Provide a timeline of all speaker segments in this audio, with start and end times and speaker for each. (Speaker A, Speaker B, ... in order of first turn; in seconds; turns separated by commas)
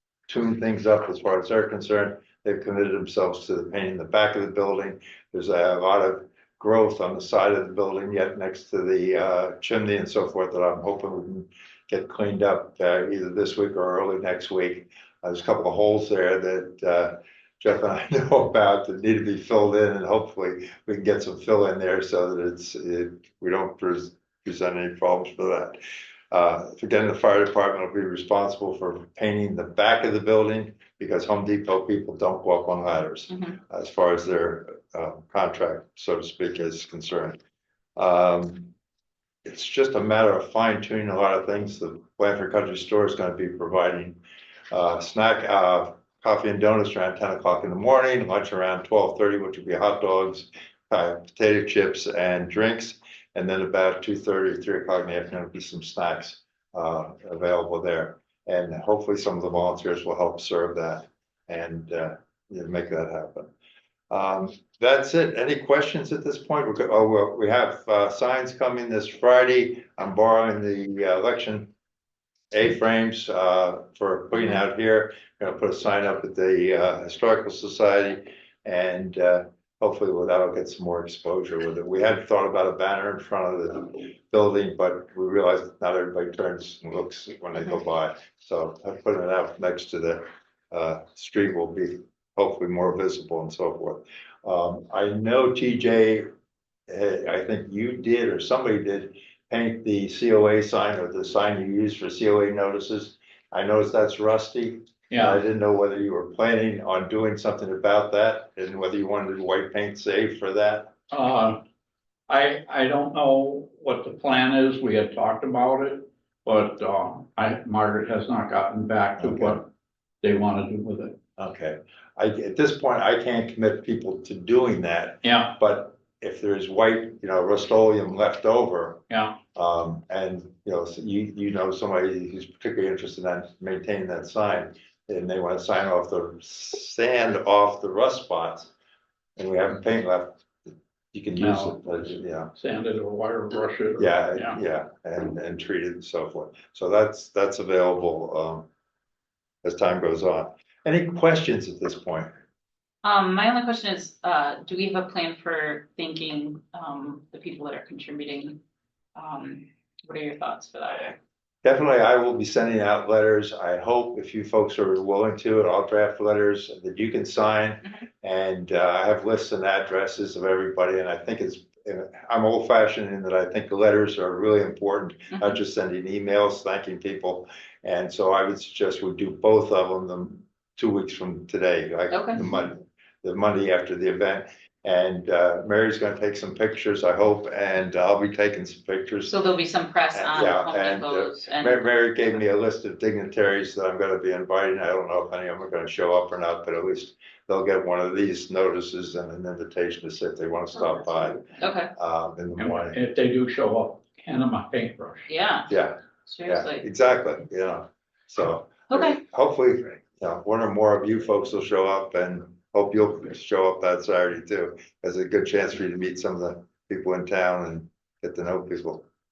Speaker A: 0.3-37.4, Speaker B: 33.3-33.6, Speaker A: 38.0-38.7, Speaker A: 39.4-44.2, Speaker A: 44.7-63.5, Speaker A: 64.1-71.7, Speaker A: 72.5-96.3, Speaker A: 96.9-110.9, Speaker C: 105.1-105.4, Speaker C: 111.1-111.6, Speaker C: 112.3-119.7, Speaker A: 119.2-119.6, Speaker C: 120.2-121.2, Speaker A: 121.4-129.0, Speaker C: 125.2-125.5, Speaker C: 129.1-129.4, Speaker A: 129.5-138.7, Speaker A: 139.4-142.5, Speaker C: 141.4-144.6, Speaker A: 144.0-148.7, Speaker A: 149.6-152.3, Speaker B: 153.0-158.6, Speaker B: 159.2-161.2, Speaker A: 161.6-189.3, Speaker B: 182.1-182.4, Speaker B: 189.2-191.8, Speaker A: 190.1-203.0, Speaker B: 201.6-201.9, Speaker C: 202.6-205.3, Speaker B: 205.3-205.7, Speaker A: 205.7-219.1, Speaker B: 206.2-206.8, Speaker B: 208.9-209.2